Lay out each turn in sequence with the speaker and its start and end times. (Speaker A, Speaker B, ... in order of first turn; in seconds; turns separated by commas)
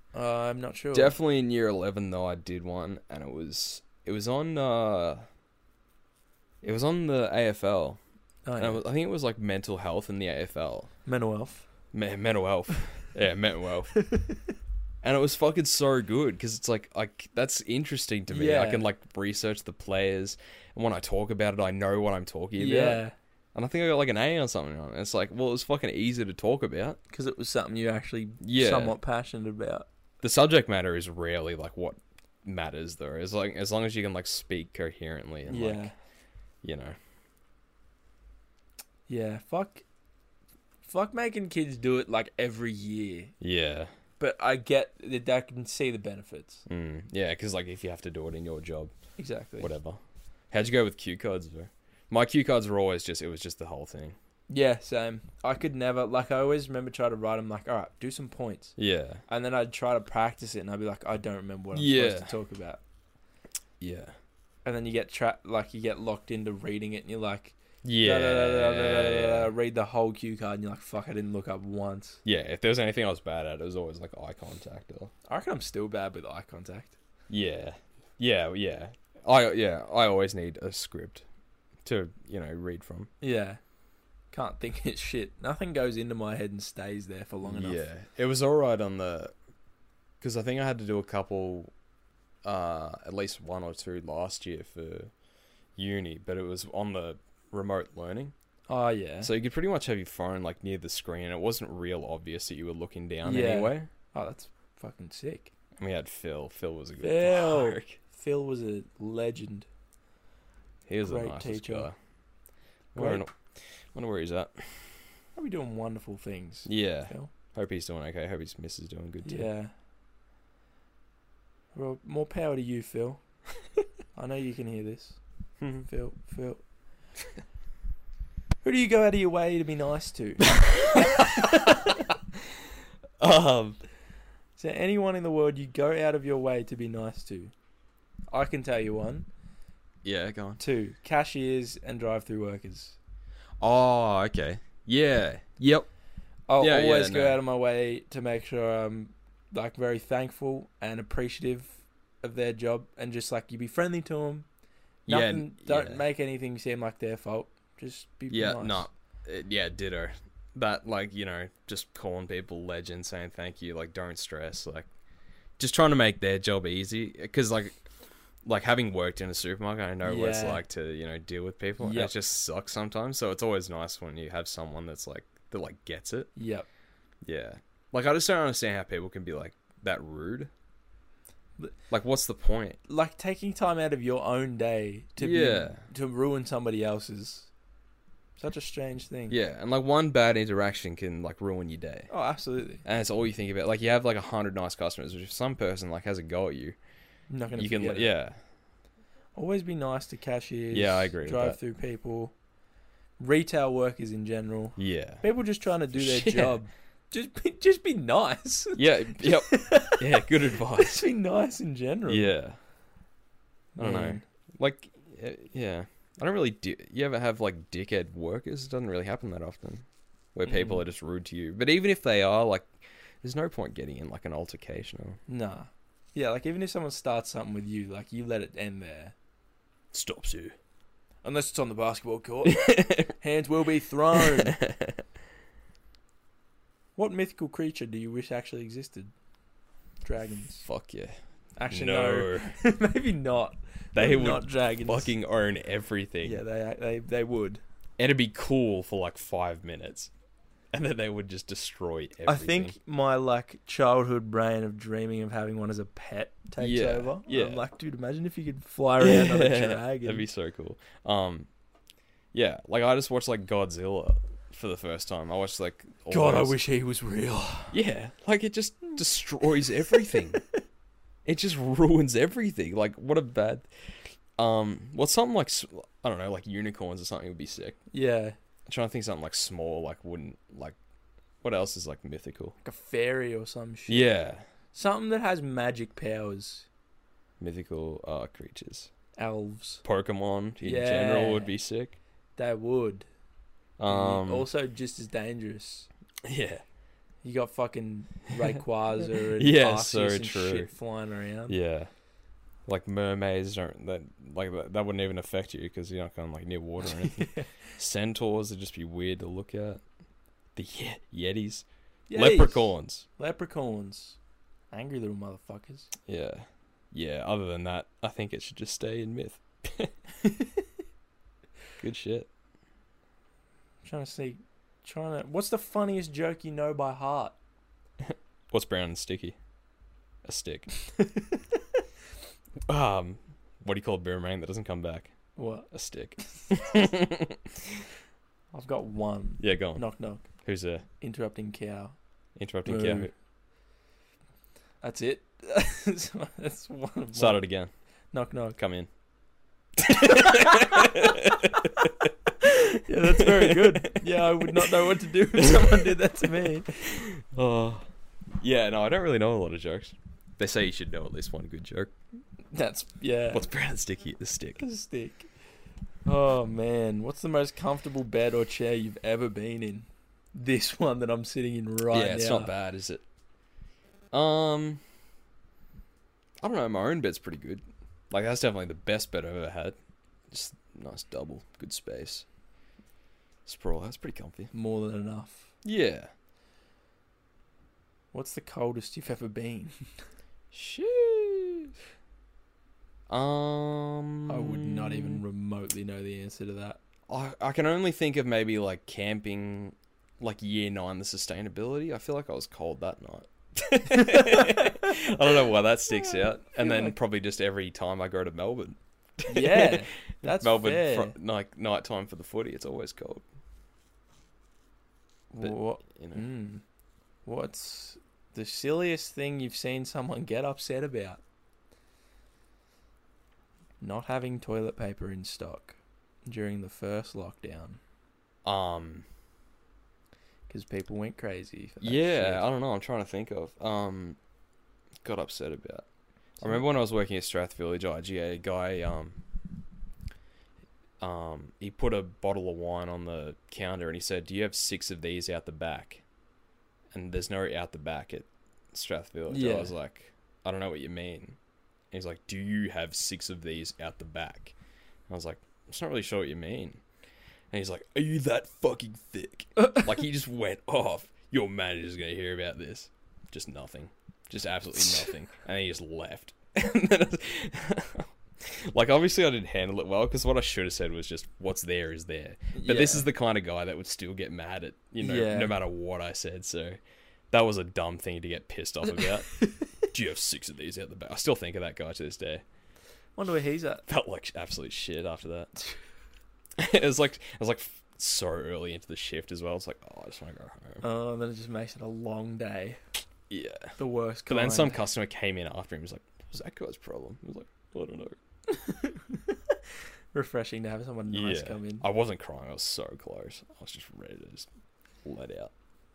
Speaker A: 0.1-1.2, Speaker B: 0.9-5.2, Speaker B: 6.6-8.0, Speaker A: 8.5-8.8, Speaker B: 8.6-10.9, Speaker A: 11.1-11.7, Speaker B: 11.9-13.9, Speaker A: 14.0-14.4, Speaker B: 15.0-23.0, Speaker A: 18.3-18.9, Speaker A: 22.6-23.1, Speaker B: 23.6-27.0, Speaker A: 27.1-29.9, Speaker B: 28.4-29.0, Speaker B: 30.2-35.9, Speaker A: 35.5-36.0, Speaker B: 36.6-37.0, Speaker A: 39.1-39.8, Speaker A: 40.8-43.3, Speaker B: 43.4-43.9, Speaker A: 44.2-46.7, Speaker B: 46.7-48.9, Speaker A: 49.2-49.7, Speaker B: 49.6-50.0, Speaker B: 50.5-54.2, Speaker A: 54.5-58.8, Speaker B: 58.8-59.2, Speaker A: 59.3-62.8, Speaker B: 61.7-62.3, Speaker B: 63.8-64.2, Speaker A: 64.7-72.2, Speaker B: 67.8-69.5, Speaker B: 72.2-75.1, Speaker A: 75.3-77.0, Speaker B: 77.3-81.2, Speaker B: 81.8-83.1, Speaker A: 83.2-83.6, Speaker A: 84.3-87.8, Speaker B: 87.5-89.3, Speaker B: 90.2-91.7, Speaker B: 92.4-95.1, Speaker B: 95.8-98.3, Speaker A: 98.7-99.3, Speaker B: 99.2-103.9, Speaker A: 103.2-105.5, Speaker B: 105.8-108.0, Speaker A: 107.0-109.7, Speaker B: 110.9-112.0, Speaker A: 111.0-111.9, Speaker B: 113.0-115.0, Speaker A: 113.0-113.2, Speaker A: 115.3-117.3, Speaker B: 116.7-119.5, Speaker A: 119.2-119.7, Speaker A: 121.7-123.2, Speaker A: 124.2-125.2, Speaker B: 125.6-125.9, Speaker A: 125.8-126.6, Speaker A: 128.6-132.0, Speaker B: 130.5-132.0, Speaker B: 133.2-133.8, Speaker A: 134.6-137.5, Speaker A: 138.3-139.3, Speaker B: 140.0-140.6, Speaker A: 140.6-143.0, Speaker B: 143.6-145.9, Speaker A: 146.5-154.5, Speaker B: 146.6-147.4, Speaker B: 155.1-156.1, Speaker A: 155.1-158.9, Speaker B: 158.3-164.9, Speaker B: 165.6-167.8, Speaker B: 168.4-176.3, Speaker A: 170.0-170.6, Speaker A: 171.8-172.1, Speaker A: 176.4-176.7, Speaker B: 177.2-180.5, Speaker B: 181.9-182.8, Speaker A: 182.9-187.5, Speaker B: 185.2-185.8, Speaker A: 188.4-189.4, Speaker B: 189.3-192.1, Speaker A: 192.1-192.8, Speaker B: 192.8-196.8, Speaker A: 197.3-198.1, Speaker B: 197.6-198.4, Speaker A: 199.3-202.3, Speaker B: 200.7-201.6, Speaker A: 203.2-212.3, Speaker B: 204.8-205.2, Speaker B: 205.9-206.6, Speaker B: 208.8-211.1, Speaker B: 212.1-212.6, Speaker A: 213.8-214.3, Speaker B: 213.8-225.2, Speaker A: 220.5-220.8, Speaker A: 225.3-229.2, Speaker B: 229.9-230.6, Speaker A: 231.2-234.6, Speaker B: 232.4-233.2, Speaker B: 234.1-235.0, Speaker A: 237.0-239.1, Speaker A: 240.0-240.7, Speaker B: 240.7-241.2, Speaker A: 241.6-245.1, Speaker B: 241.7-242.5, Speaker B: 243.9-246.4, Speaker A: 246.2-247.6, Speaker B: 248.0-250.1, Speaker B: 250.7-252.7, Speaker A: 252.3-260.3, Speaker B: 256.6-257.6, Speaker B: 259.0-261.5, Speaker B: 262.3-266.6, Speaker A: 266.1-267.8, Speaker B: 267.7-270.4, Speaker A: 269.9-270.2, Speaker B: 271.2-273.7, Speaker B: 274.4-277.8, Speaker A: 277.9-278.4, Speaker B: 278.7-280.8, Speaker B: 281.4-282.6, Speaker A: 282.6-284.1, Speaker B: 283.9-284.4, Speaker A: 284.7-286.7, Speaker B: 287.4-288.9, Speaker A: 289.2-289.8, Speaker B: 289.9-292.0, Speaker A: 290.6-291.5, Speaker A: 292.4-293.1, Speaker B: 293.8-294.5, Speaker A: 293.9-295.9, Speaker B: 296.2-296.6, Speaker A: 297.2-301.6, Speaker B: 299.2-300.7, Speaker B: 301.5-301.9, Speaker B: 302.7-309.8, Speaker A: 306.9-307.5, Speaker B: 310.6-313.1, Speaker A: 312.1-314.2, Speaker A: 314.7-315.9, Speaker B: 316.1-319.9, Speaker A: 320.2-320.6, Speaker B: 321.8-322.3, Speaker A: 323.8-327.4, Speaker B: 328.0-329.4, Speaker B: 330.2-330.7, Speaker A: 330.9-331.6, Speaker B: 332.7-335.1, Speaker A: 335.4-335.7, Speaker B: 335.7-337.8, Speaker A: 338.5-340.3, Speaker B: 339.4-340.9, Speaker A: 341.0-342.0, Speaker B: 342.4-343.1, Speaker A: 342.6-343.1, Speaker A: 344.8-347.4, Speaker B: 347.1-347.7, Speaker A: 348.1-348.6, Speaker B: 348.6-348.9, Speaker B: 349.8-352.1, Speaker A: 349.9-351.5, Speaker A: 352.4-356.8, Speaker B: 353.1-354.8, Speaker B: 355.3-357.9, Speaker B: 358.4-361.9, Speaker A: 362.5-363.5, Speaker B: 363.3-364.6, Speaker A: 364.6-365.3, Speaker A: 366.1-372.5, Speaker B: 371.9-373.0, Speaker B: 374.1-374.8, Speaker B: 376.4-379.8, Speaker B: 380.3-382.3, Speaker B: 383.5-384.5, Speaker A: 384.5-385.5, Speaker B: 385.6-386.1, Speaker A: 388.1-389.8, Speaker B: 390.5-391.7, Speaker B: 393.1-395.2, Speaker A: 394.3-396.8, Speaker B: 397.1-413.2, Speaker A: 403.9-404.9, Speaker A: 405.9-407.0, Speaker A: 409.3-411.1, Speaker A: 415.3-416.6, Speaker B: 415.4-416.3, Speaker A: 417.2-421.2, Speaker A: 423.8-427.8, Speaker B: 428.4-429.1, Speaker A: 430.5-432.5, Speaker B: 431.8-434.2, Speaker B: 435.0-435.9, Speaker B: 436.4-439.2, Speaker B: 441.0-446.0, Speaker B: 446.9-451.4, Speaker A: 449.3-449.7, Speaker B: 451.9-454.6, Speaker B: 455.1-456.8, Speaker B: 457.5-476.8, Speaker A: 472.5-473.1, Speaker A: 475.0-475.6, Speaker B: 477.3-482.4, Speaker A: 479.4-479.7, Speaker A: 483.2-483.9, Speaker B: 483.9-485.5, Speaker B: 486.6-490.8, Speaker A: 490.8-492.8, Speaker B: 493.3-493.8, Speaker A: 493.8-494.8, Speaker B: 494.3-498.2, Speaker A: 498.5-499.6, Speaker A: 500.1-501.8, Speaker B: 501.1-504.5, Speaker B: 505.0-505.5